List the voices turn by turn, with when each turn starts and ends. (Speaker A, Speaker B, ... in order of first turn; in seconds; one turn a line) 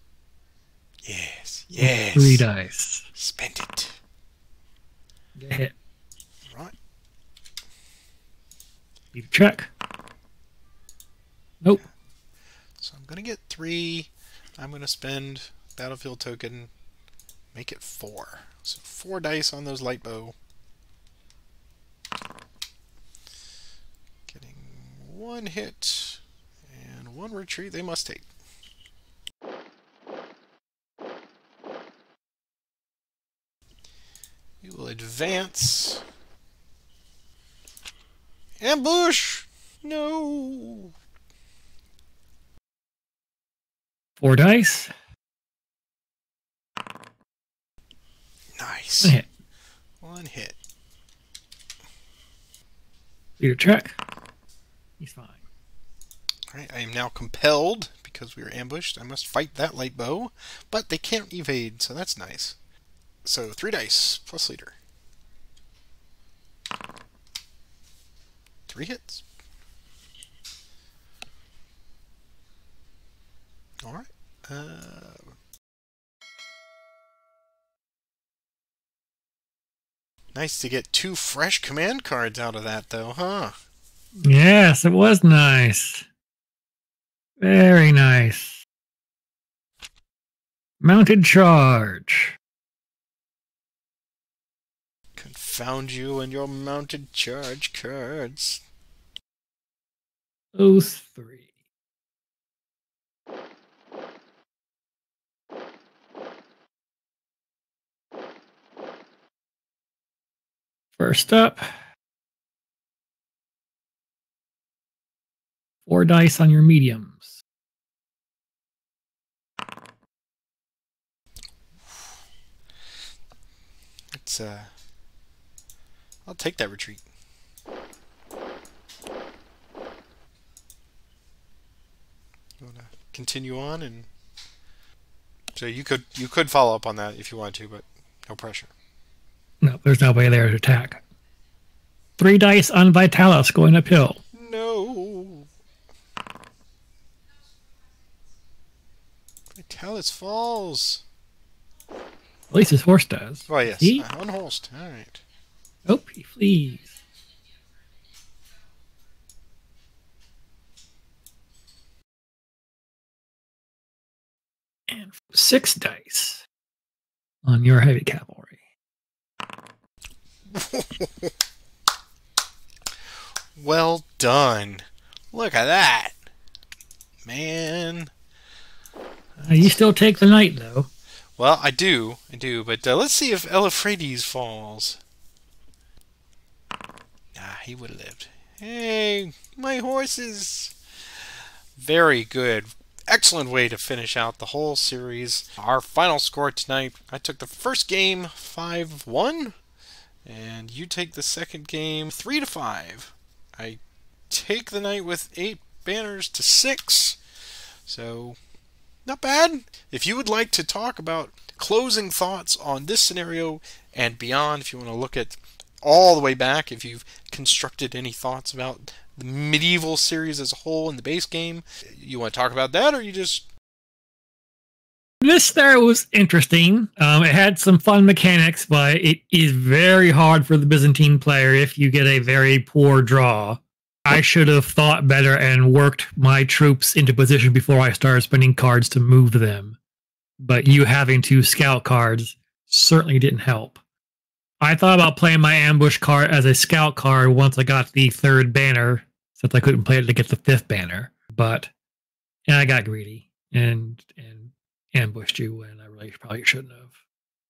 Speaker A: 1.0-2.4
Speaker B: 1.8-3.1
Speaker A: 3.1-4.0
Speaker B: 5.4-5.7
Speaker A: 6.5-6.7
Speaker B: 9.1-9.7
Speaker A: 12.8-16.7
Speaker A: 17.5-20.3
Speaker A: 24.3-28.3
Speaker A: 34.6-36.0
Speaker A: 38.6-40.9
Speaker B: 44.2-44.9
Speaker A: 48.5-49.2
Speaker A: 50.0-50.5
Speaker B: 53.4-54.0
Speaker B: 55.0-55.4
Speaker A: 56.5-62.6
Speaker A: 63.2-64.8
Speaker A: 68.7-69.2
Speaker A: 73.8-75.3
Speaker A: 80.3-83.5
Speaker B: 84.2-86.0
Speaker B: 87.4-88.6
Speaker B: 90.8-92.4
Speaker A: 95.2-98.6
Speaker B: 100.5-101.4
Speaker B: 111.0-111.7
Speaker B: 115.9-117.3
Speaker A: 124.1-124.7
Speaker A: 126.2-127.0
Speaker A: 132.6-134.1
Speaker A: 135.5-138.7
Speaker B: 139.6-141.0
Speaker B: 142.2-144.2
Speaker A: 144.3-145.5
Speaker A: 149.5-151.0
Speaker B: 152.5-154.1
Speaker A: 153.5-155.2
Speaker B: 155.9-156.9
Speaker B: 164.9-166.4
Speaker B: 167.4-168.5
Speaker A: 170.5-171.3
Speaker A: 173.6-176.2
Speaker A: 177.2-178.1
Speaker A: 179.4-179.8
Speaker B: 179.4-180.9
Speaker A: 181.4-185.0
Speaker A: 187.3-199.5
Speaker A: 200.2-207.2
Speaker A: 207.9-208.4
Speaker A: 209.1-223.5
Speaker B: 225.2-239.8
Speaker B: 240.4-243.8
Speaker B: 244.6-251.7
Speaker B: 252.5-256.9